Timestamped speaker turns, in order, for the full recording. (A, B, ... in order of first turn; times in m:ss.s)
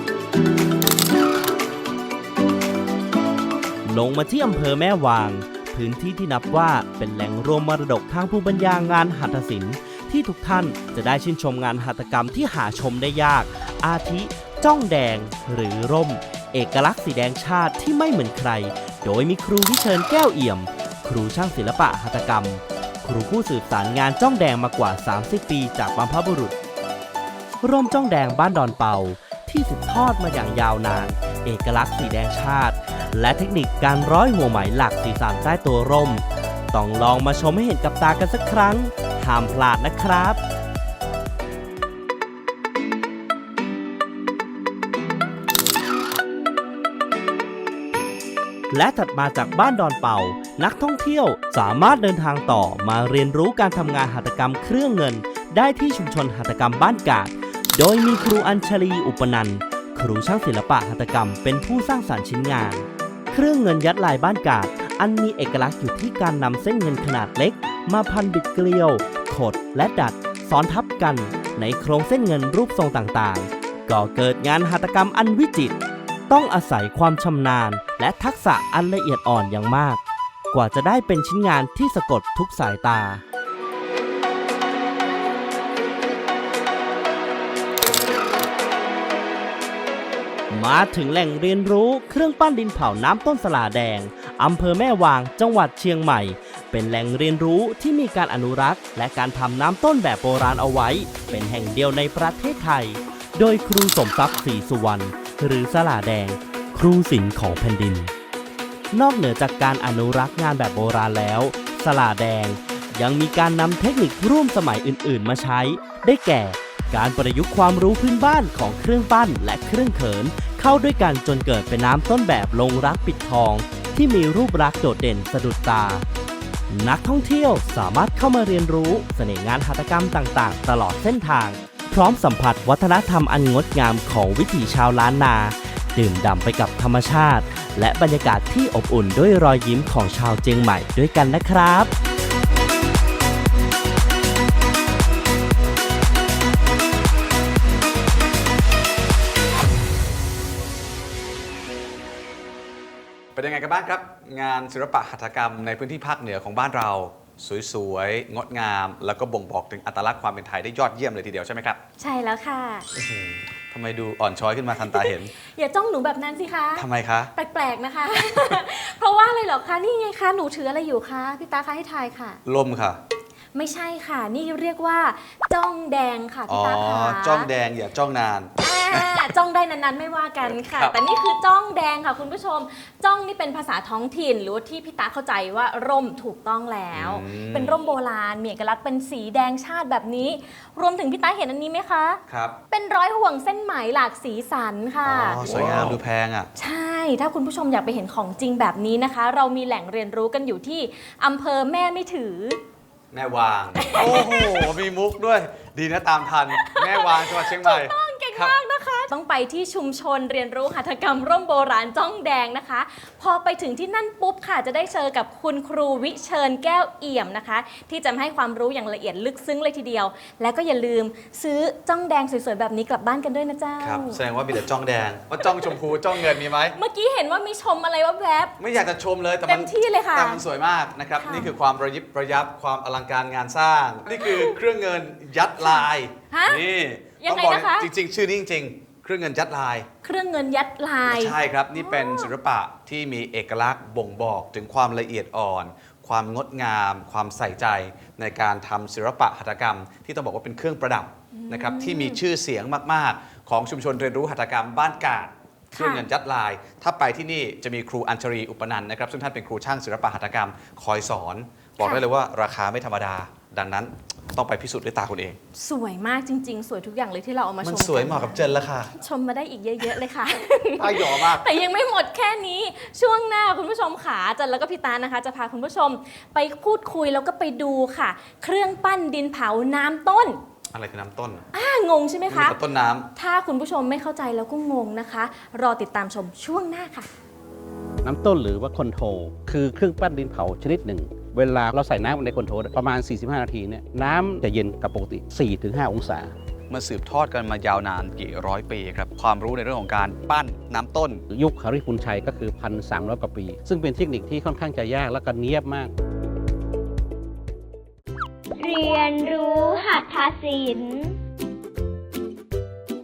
0:03.8-0:26.5 A
0:27.6-0:40.4 A
0:48.7-1:15.7 A
1:16.3-1:20.0 A
1:20.5-1:23.2 A
1:30.5-1:48.1 A
1:48.9-2:06.0 A
2:06.7-2:21.9 A
2:33.3-2:41.8 B
2:42.0-2:42.9 C
2:42.9-2:45.3 B
2:44.8-2:52.4 C
2:46.8-2:47.3 B
2:52.4-2:53.0 B
2:53.5-2:57.5 C
2:56.5-2:59.2 B
2:58.6-3:15.9 C
3:00.6-3:00.9 B
3:06.9-3:07.8 B
3:12.3-3:12.6 B
3:15.0-3:16.5 B
3:16.5-3:22.6 C
3:23.1-3:28.5 B
3:23.8-3:24.7 C
3:26.5-3:44.7 C
3:43.8-3:46.8 B
3:45.4-3:48.6 C
3:48.6-3:59.9 B
3:49.4-3:50.4 C
3:51.2-3:51.5 C
3:54.1-3:54.6 C
3:55.6-3:56.6 C
3:57.2-3:57.9 C
4:00.0-4:02.3 C
4:01.1-4:25.4 B
4:11.3-4:12.2 C
4:15.7-4:16.1 C
4:21.8-4:22.0 C
4:25.5-4:40.4 C
4:27.6-4:28.9 B
4:30.8-4:31.5 B
4:40.7-4:41.4 B
4:41.5-4:42.6 C
4:42.3-4:43.1 B
4:43.1-4:47.1 C
4:48.0-4:56.3 D
4:56.7-5:01.2 B
5:01.3-5:05.9 D
5:08.6-5:11.1 E